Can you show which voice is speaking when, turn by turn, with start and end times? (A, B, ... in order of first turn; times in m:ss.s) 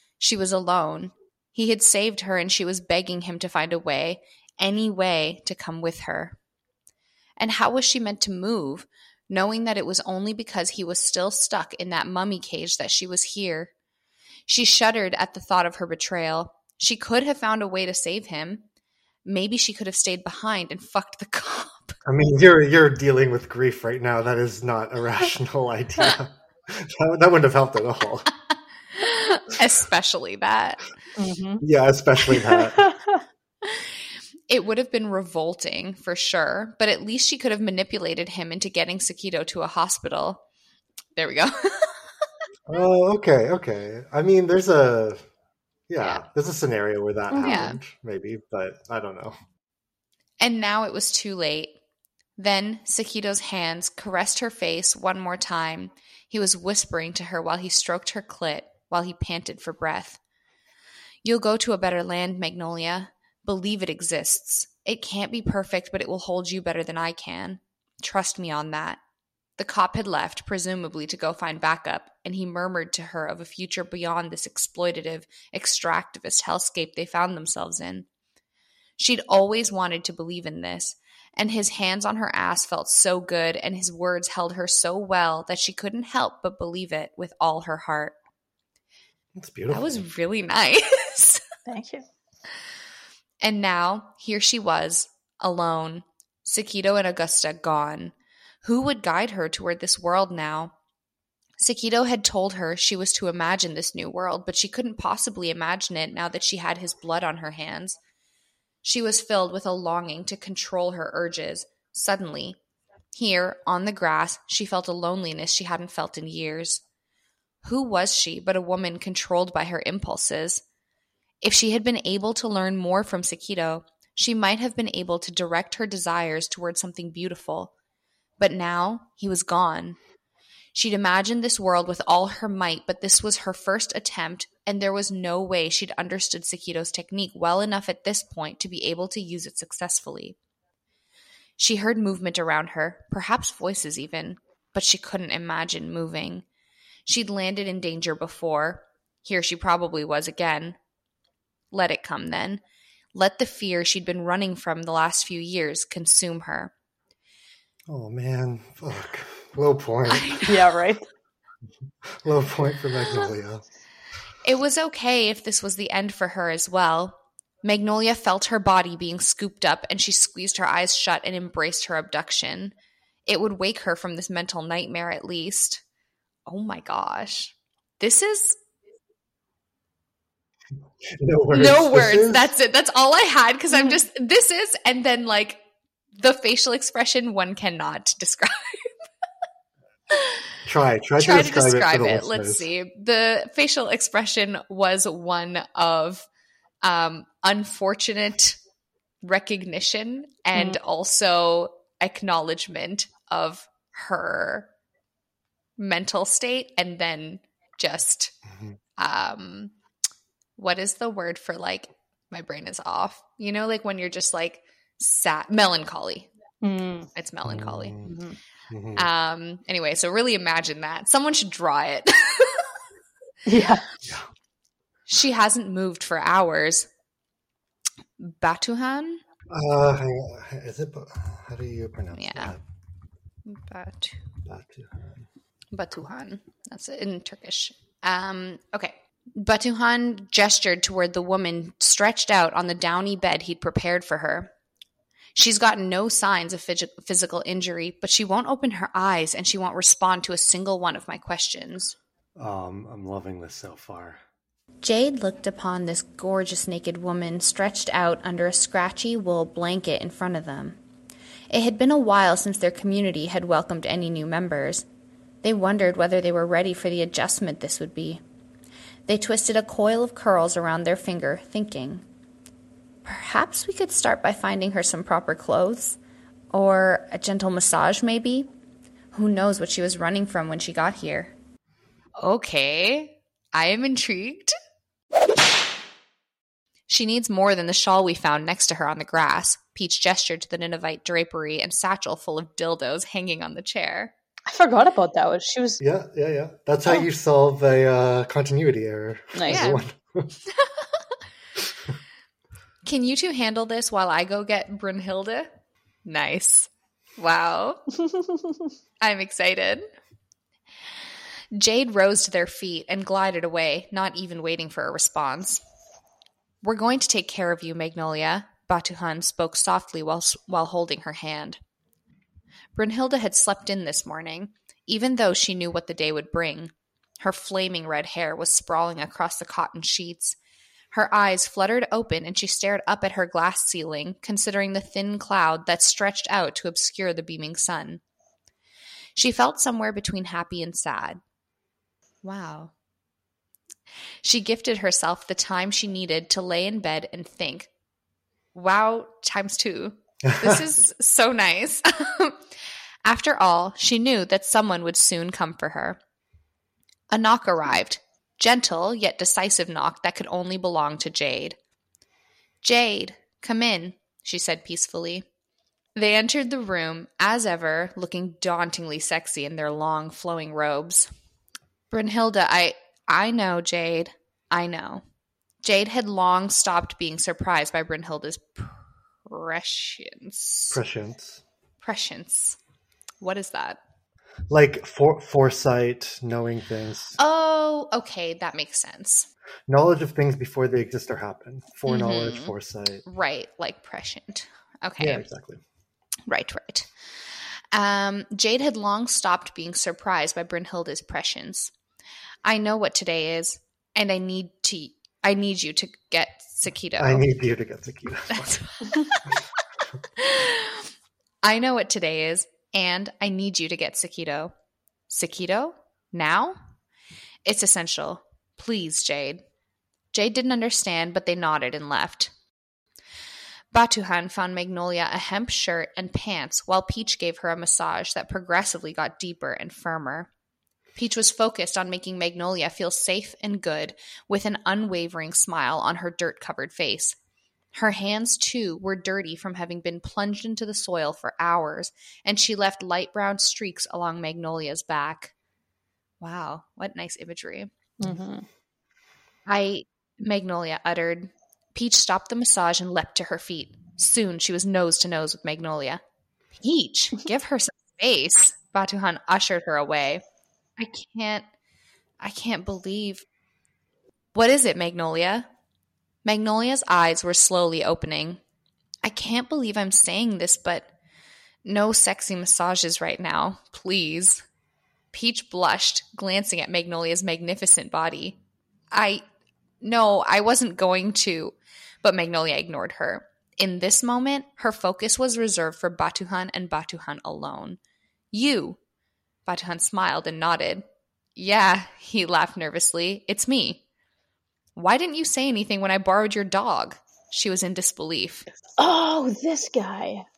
0:00.2-0:06.4 A
0:07.4-0:13.7 A
0:14.5-0:18.6 A
0:19.2-0:22.0 A
0:22.0-0:28.3 B
0:28.9-0:30.8 A
0:31.2-0:31.6 C
0:31.6-0:32.9 B
0:32.3-0:33.2 C
0:33.6-0:34.0 A
0:34.5-0:40.4 A
0:41.2-0:42.0 A
0:42.7-0:45.3 B
0:45.9-0:49.4 B
0:47.3-0:47.7 C
0:47.4-0:47.8 A
0:50.4-0:51.8 A
0:52.4-1:00.2 A
1:01.2-1:09.0 A
1:09.6-1:18.1 A
1:19.0-1:28.2 A
1:29.4-1:30.0 B
1:29.7-1:31.4 A
1:31.7-1:32.0 C
1:33.4-1:40.7 A
1:41.6-1:48.0 A
1:48.8-1:52.6 A
1:53.2-1:56.8 A
1:57.6-2:00.6 A
2:01.4-2:07.7 A
2:08.4-2:10.0 A
2:10.7-2:20.4 A
2:21.6-2:26.5 A
2:27.1-2:30.8 A
2:31.7-2:32.6 A
2:33.1-2:36.7 A
2:37.9-2:40.3 B
2:40.1-2:40.7 A
2:40.5-2:41.0 C
2:42.2-2:43.6 B
2:44.4-2:52.8 A
2:53.3-2:55.8 A
2:56.5-2:58.6 A
3:01.0-3:02.5 B
3:01.5-3:05.6 A
3:03.7-3:04.0 C
3:06.2-3:08.9 A
3:10.1-3:10.4 A
3:10.6-3:12.7 B
3:11.2-3:16.3 A
3:16.8-3:18.6 A
3:19.2-3:24.7 A
3:25.8-3:28.3 A
3:28.5-3:28.8 B
3:29.0-3:29.7 A
3:30.6-3:36.3 A
3:36.6-3:37.1 C
3:37.1-3:38.0 A
3:37.4-3:38.2 B
3:38.1-3:38.4 C
3:38.7-3:39.1 B
3:39.0-3:42.7 A
3:43.4-3:43.8 C
3:44.0-3:44.3 B
3:45.1-3:46.9 A
3:48.2-3:49.2 A
3:49.5-3:52.6 B
3:52.2-3:52.5 A
3:53.5-3:54.2 A
3:54.4-3:55.3 B
3:55.7-4:04.5 A
4:05.4-4:12.0 A
4:12.4-4:14.2 B
4:14.8-4:20.8 A
4:21.5-4:24.8 A
4:25.4-4:28.2 A
4:29.1-4:32.0 A
4:33.0-4:36.0 A
4:36.5-4:38.5 A
4:39.1-4:41.3 A
4:42.2-4:44.6 A
4:46.9-4:54.1 A
4:54.5-4:55.8 C
4:55.8-5:00.4 B
4:59.3-4:59.7 C
4:59.5-4:59.8 A
5:00.6-5:00.9 A
5:02.8-5:05.5 A
5:06.0-5:07.8 A
5:09.0-5:09.9 A
5:11.5-5:15.6 A
5:16.6-5:21.6 A
5:22.8-5:30.4 A
5:30.9-5:38.0 A
5:39.2-5:41.2 A
5:42.2-5:42.7 A
5:44.2-5:47.7 A
5:48.5-5:52.4 A
5:50.2-5:50.6 B
5:53.0-5:56.0 A
5:57.1-6:01.6 A
6:02.6-6:05.3 A
6:06.0-6:11.1 A
6:11.9-6:15.0 A
6:15.6-6:20.8 A
6:20.7-6:21.4 B
6:21.8-6:22.6 A
6:23.2-6:23.8 A
6:24.5-6:27.2 B
6:27.2-6:29.3 A
6:29.7-6:33.0 B
6:31.9-6:32.5 A
6:33.0-6:35.2 A
6:35.0-6:35.6 B
6:36.3-6:41.7 A
6:42.4-6:47.3 A
6:47.0-6:48.6 B
6:48.3-6:49.4 A
6:50.2-6:50.9 A
6:51.4-6:54.5 A
6:55.1-6:56.6 A
6:57.5-6:59.4 A
7:00.1-7:02.3 A
7:03.7-7:10.3 A
7:11.0-7:17.2 A
7:17.7-7:25.3 A
7:26.2-7:27.7 A
7:28.0-7:28.4 C
7:29.5-7:36.0 A
7:36.6-7:40.2 A
7:40.8-7:41.4 A
7:42.2-7:43.2 A
7:44.3-7:45.5 A
7:46.2-7:48.4 A
7:49.0-7:50.9 A
7:51.6-7:54.4 A
7:55.1-7:58.4 A
7:58.9-7:59.2 A
7:59.8-8:07.8 A
8:08.3-8:08.8 A
8:09.5-8:10.8 A
8:11.4-8:13.8 A
8:14.8-8:18.5 A
8:18.8-8:20.2 C